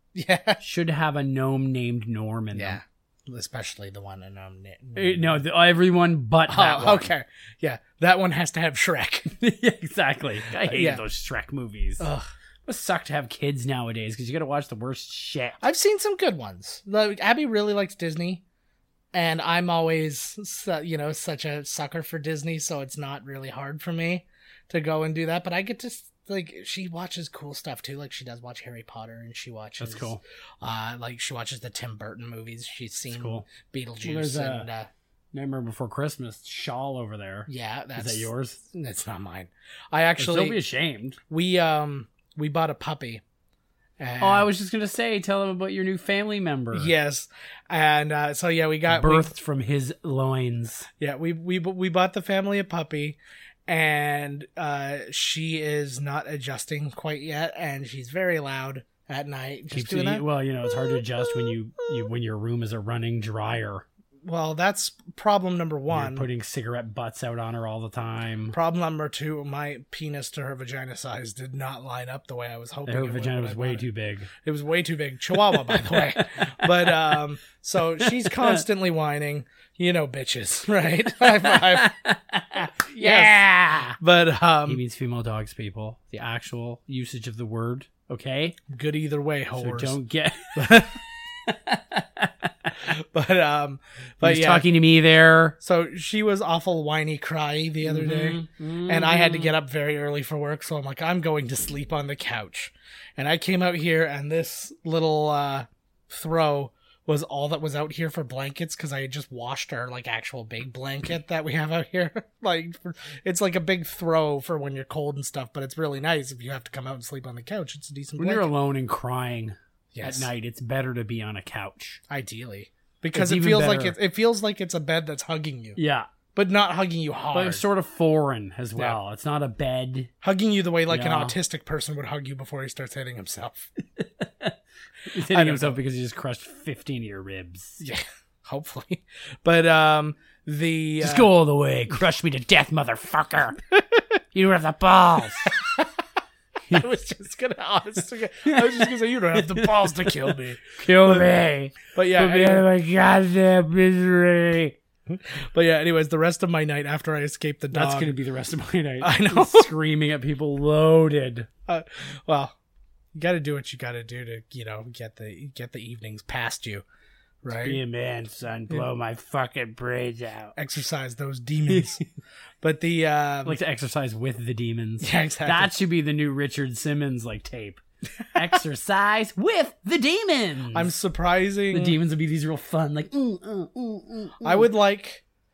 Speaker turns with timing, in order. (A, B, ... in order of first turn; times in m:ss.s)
0:00.1-0:00.6 A
0:00.6-0:02.8 B
0:02.5-0:05.4 A
0:05.0-0:07.1 B
0:06.5-0:09.3 A
0:09.4-0:12.1 B
0:10.5-0:11.0 A
0:12.0-0:12.3 A
0:12.7-0:15.6 B
0:15.6-0:18.4 A
0:19.1-0:34.9 A
0:29.8-0:30.2 B
0:33.1-0:33.5 B
0:34.0-0:34.7 B
0:35.3-0:38.6 B
0:37.5-0:40.6 A
0:40.2-0:41.2 B
0:41.3-0:43.2 A
0:44.0-0:44.5 A
0:44.2-0:46.9 B
0:46.7-0:49.3 A
0:48.9-0:50.9 B
0:51.0-1:00.3 A
0:59.7-1:03.8 B
1:00.8-1:02.0 A
1:04.2-1:06.3 A
1:05.9-1:08.6 B
1:08.5-1:22.0 A
1:12.9-1:14.3 B
1:15.4-1:17.2 B
1:18.0-1:18.6 B
1:21.2-1:24.0 B
1:22.9-1:24.8 A
1:24.7-1:28.6 B
1:28.7-1:30.0 A
1:29.6-1:30.9 B
1:30.6-1:31.0 A
1:31.5-1:32.8 B
1:32.8-1:34.7 A
1:34.2-1:35.6 B
1:35.6-1:58.5 A
1:37.8-1:39.6 B
1:58.2-2:02.0 B
1:59.9-2:00.3 A
2:02.1-2:05.8 A
2:03.1-2:04.0 B
2:05.8-2:06.1 B
2:06.3-2:07.6 A
2:07.3-2:10.1 B
2:10.2-2:13.7 A
2:10.9-2:11.4 B
2:14.0-2:14.6 B
2:15.1-2:17.8 B
2:15.2-2:15.8 A
2:17.8-2:21.3 A
2:21.0-2:23.6 B
2:23.8-2:24.0 A
2:24.3-2:25.6 B
2:25.4-2:25.9 A
2:26.7-2:31.3 A
2:28.5-2:34.8 B
2:31.9-2:32.7 A
2:35.1-2:38.2 A
2:37.7-2:41.5 B
2:39.0-2:39.7 A
2:41.7-2:42.6 A
2:43.1-2:46.8 A
2:47.4-2:47.8 A
2:47.5-2:50.5 B
2:50.6-2:52.0 A
2:51.7-2:52.0 B
2:52.6-2:53.6 A
2:53.4-2:57.8 B
2:55.0-2:55.7 A
2:58.3-3:00.9 B
3:00.7-3:02.0 A
3:01.7-3:04.7 B
3:04.4-3:05.2 A